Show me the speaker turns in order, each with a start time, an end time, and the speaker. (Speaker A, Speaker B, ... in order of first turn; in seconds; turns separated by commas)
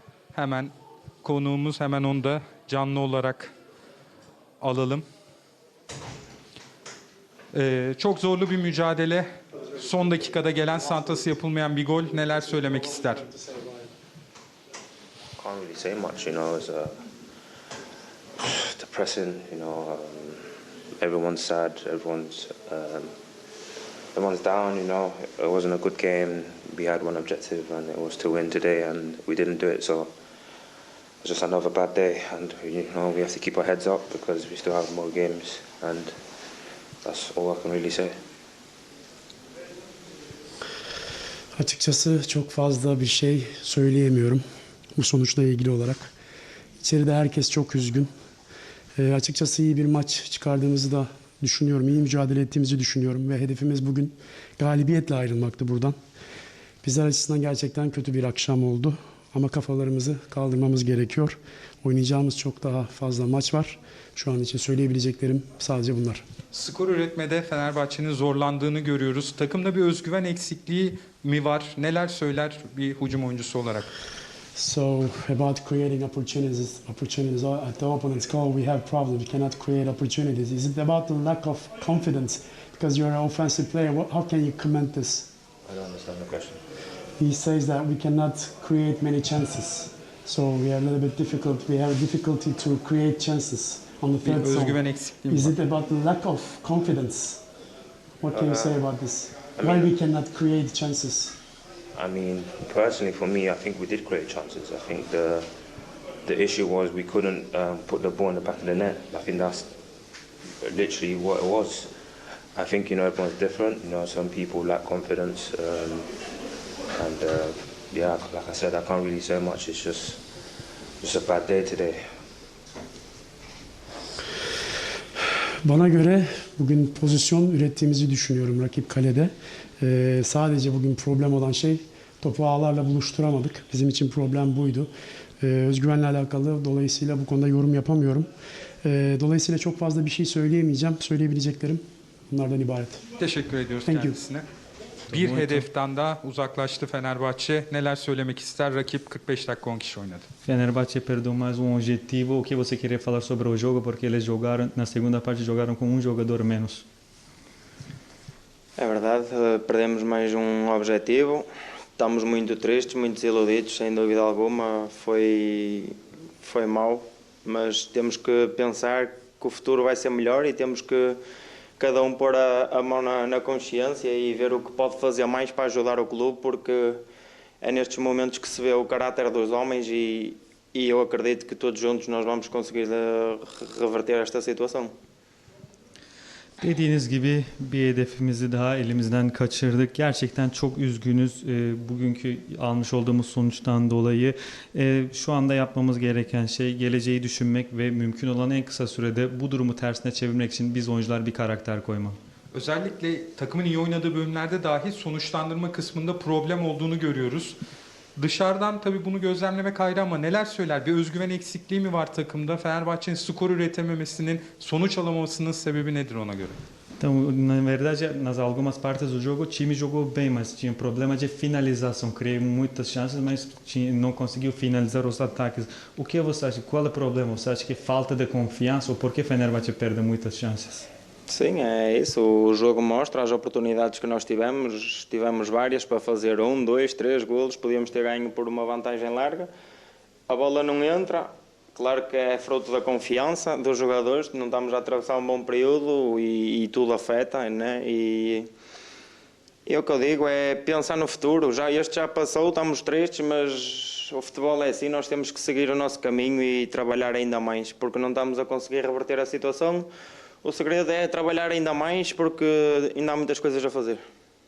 Speaker A: 0.3-3.5, Speaker A: 4.6-5.0, Speaker A: 7.5-13.3, Speaker B: 15.4-16.9, Speaker B: 18.4-23.1, Speaker B: 24.1-30.1, Speaker B: 31.2-36.1, Speaker B: 37.0-38.1, Speaker C: 41.6-44.4, Speaker C: 45.0-46.1, Speaker C: 46.8-48.1, Speaker C: 49.0-56.0, Speaker C: 56.8-66.2, Speaker A: 66.5-73.9, Speaker C: 74.6-85.3, Speaker B: 85.7-86.6, Speaker C: 87.2-97.4, Speaker A: 94.2-95.5, Speaker C: 98.2-101.3, Speaker B: 98.3-98.8, Speaker B: 99.6-99.9, Speaker B: 101.9-105.5, Speaker B: 106.2-109.7, Speaker B: 110.6-111.9, Speaker B: 112.5-116.1, Speaker B: 117.0-120.2, Speaker B: 121.0-122.0, Speaker C: 125.6-134.9, Speaker C: 135.4-138.3, Speaker C: 138.8-143.0, Speaker A: 143.2-144.4, Speaker C: 143.9-144.2, Speaker D: 145.1-145.6, Speaker A: 145.1-150.3, Speaker D: 150.5-156.8, Speaker E: 158.8-161.5, Speaker E: 162.0-171.2, Speaker E: 171.8-177.0, Speaker E: 177.6-184.9, Speaker D: 186.6-202.2, Speaker A: 202.5-207.6, Speaker A: 208.2-216.6, Speaker D: 217.0-230.9, Speaker E: 231.3-239.5, Speaker E: 240.3-248.5, Speaker E: 249.7-259.9, Speaker E: 260.4-264.0